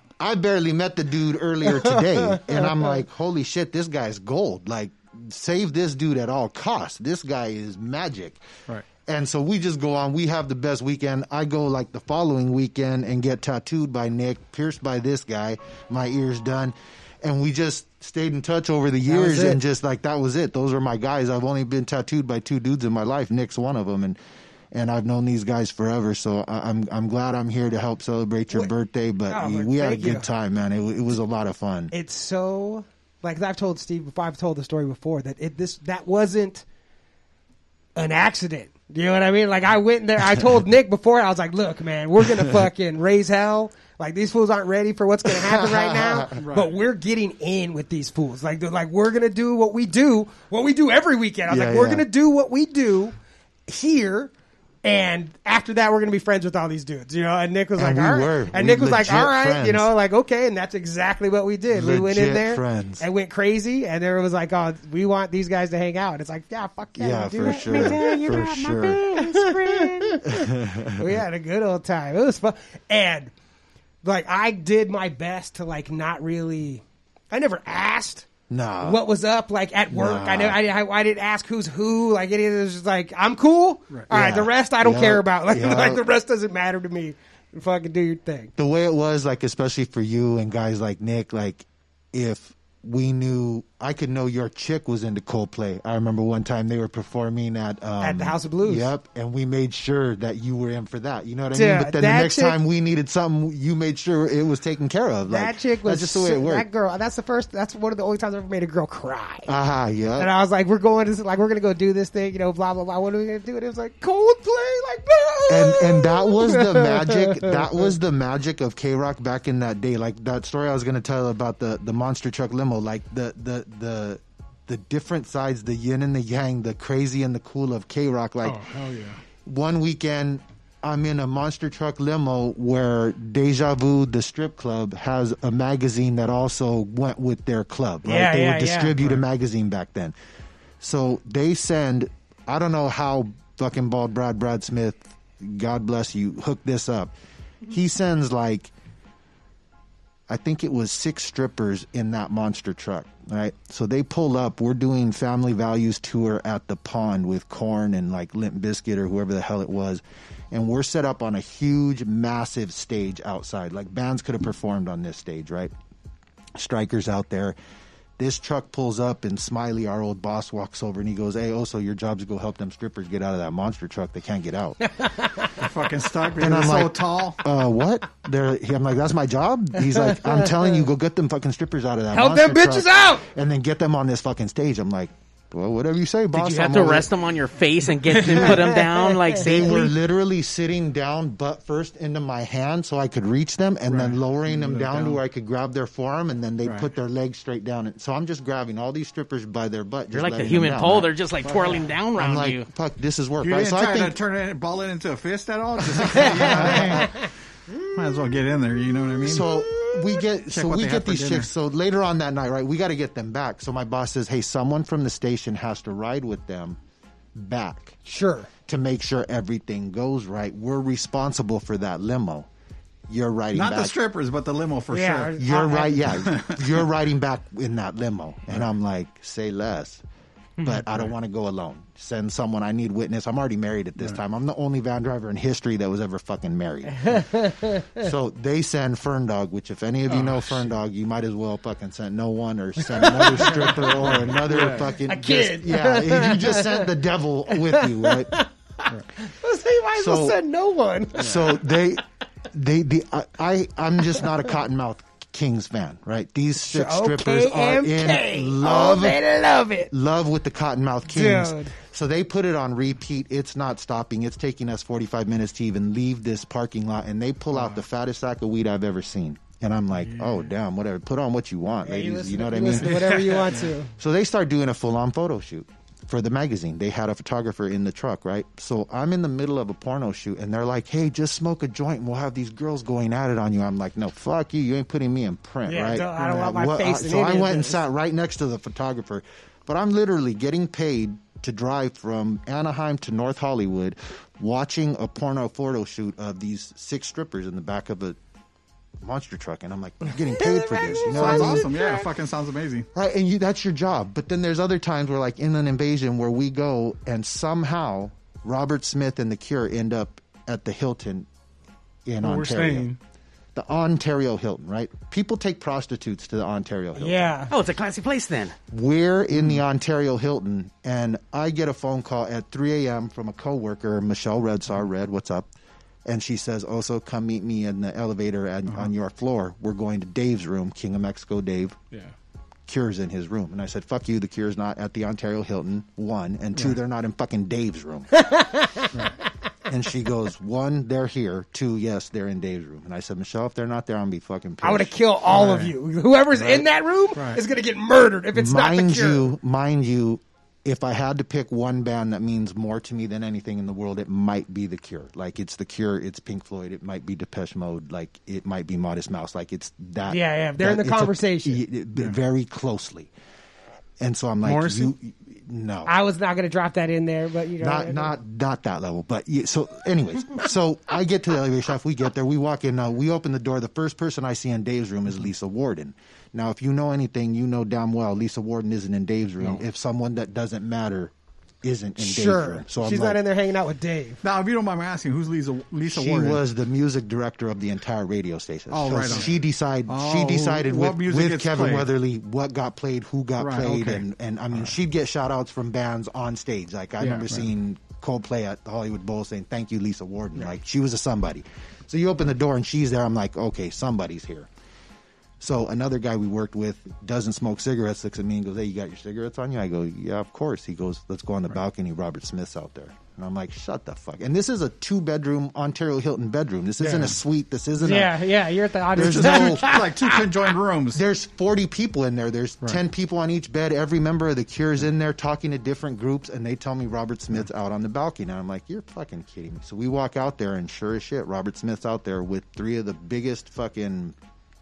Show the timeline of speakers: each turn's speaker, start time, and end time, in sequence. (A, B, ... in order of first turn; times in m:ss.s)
0:00.2-0:08.4 A
0:09.0-0:24.2 A
0:19.0-0:19.6 B
0:24.7-0:31.9 A
0:29.3-0:30.3 B
0:31.9-0:36.6 B
0:38.0-0:53.2 B
0:45.2-0:46.4 A
0:46.4-0:46.7 C
0:51.5-0:52.0 A
0:53.7-0:54.3 B
0:54.8-1:08.3 B
0:57.8-0:59.9 A
1:01.7-1:03.0 A
1:07.0-1:09.1 A
1:07.4-1:10.2 D
1:09.2-1:13.3 B
1:10.2-1:11.1 A
1:14.0-1:18.3 B
1:18.5-1:19.0 A
1:18.8-1:28.5 B
1:19.9-1:20.6 A
1:24.1-1:26.0 A
1:28.6-1:46.7 A
1:38.0-1:38.9 B
1:41.5-1:42.6 B
1:45.3-1:49.5 B
1:49.4-1:50.3 A
1:50.2-1:57.6 B
1:55.5-2:08.6 A
2:08.4-2:09.2 E
2:09.4-2:20.1 A
2:18.0-2:19.0 B
2:20.8-2:27.1 A
2:27.7-2:28.7 A
2:30.3-2:45.7 A
2:46.6-2:47.6 A
2:48.2-2:54.8 A
2:55.5-2:57.4 C
2:56.4-3:07.1 A
3:02.1-3:03.2 B
3:06.3-3:09.9 D
3:08.1-3:08.4 E
3:08.2-3:08.5 A
3:08.7-3:09.4 B
3:09.4-3:21.1 A
3:13.9-3:15.2 C
3:16.6-3:16.9 C
3:20.1-3:22.7 D
3:21.4-3:21.8 C
3:22.2-3:24.2 A
3:23.4-3:29.9 C
3:25.9-3:27.1 A
3:29.2-3:36.8 A
3:30.5-3:31.5 C
3:37.3-3:38.0 A
3:38.0-3:38.5 B
3:38.7-3:42.5 A
3:43.1-3:44.0 A
3:43.5-3:45.4 C
3:44.9-3:46.1 B
3:45.4-3:50.0 A
3:46.2-3:46.7 C
3:50.6-3:57.2 A
3:57.0-3:58.1 B
3:58.0-4:08.4 A
4:00.1-4:00.6 E
4:02.9-4:03.7 B
4:04.4-4:04.9 E
4:05.0-4:06.9 B
4:07.5-4:08.5 B
4:09.1-4:11.7 B
4:10.0-4:10.4 A
4:11.1-4:19.2 A
4:16.6-4:19.9 B
4:19.9-4:33.2 A
4:21.1-4:21.7 B
4:31.8-4:33.9 B
4:34.0-4:58.2 A
4:45.6-4:47.8 B
4:59.0-5:01.7 A
5:00.3-5:02.1 B
5:01.0-5:02.9 C
5:02.9-5:11.3 A
5:12.0-5:12.9 A
5:12.2-5:13.0 E
5:13.5-5:17.3 A
5:17.0-5:17.5 B
5:17.5-5:18.6 D
5:18.7-5:25.5 A
5:26.0-5:31.8 A
5:32.7-5:38.1 A
5:38.1-5:38.9 B
5:39.6-5:44.9 A
5:44.6-5:49.3 B
5:45.3-5:45.7 C
5:47.1-5:47.4 C
5:48.3-6:03.1 A
6:00.1-6:01.6 B
6:04.0-6:05.9 A
6:04.4-6:04.9 E
6:05.8-6:08.1 B
6:07.6-6:23.2 A
6:22.0-6:24.2 B
6:24.2-6:26.4 C
6:25.9-6:44.5 A
6:28.7-6:31.9 C
6:33.4-6:34.0 C
6:37.0-6:37.5 C
6:45.4-6:58.2 A
6:57.8-7:00.1 B
6:58.9-6:59.8 A
6:59.0-7:01.0 C
7:00.9-7:14.2 A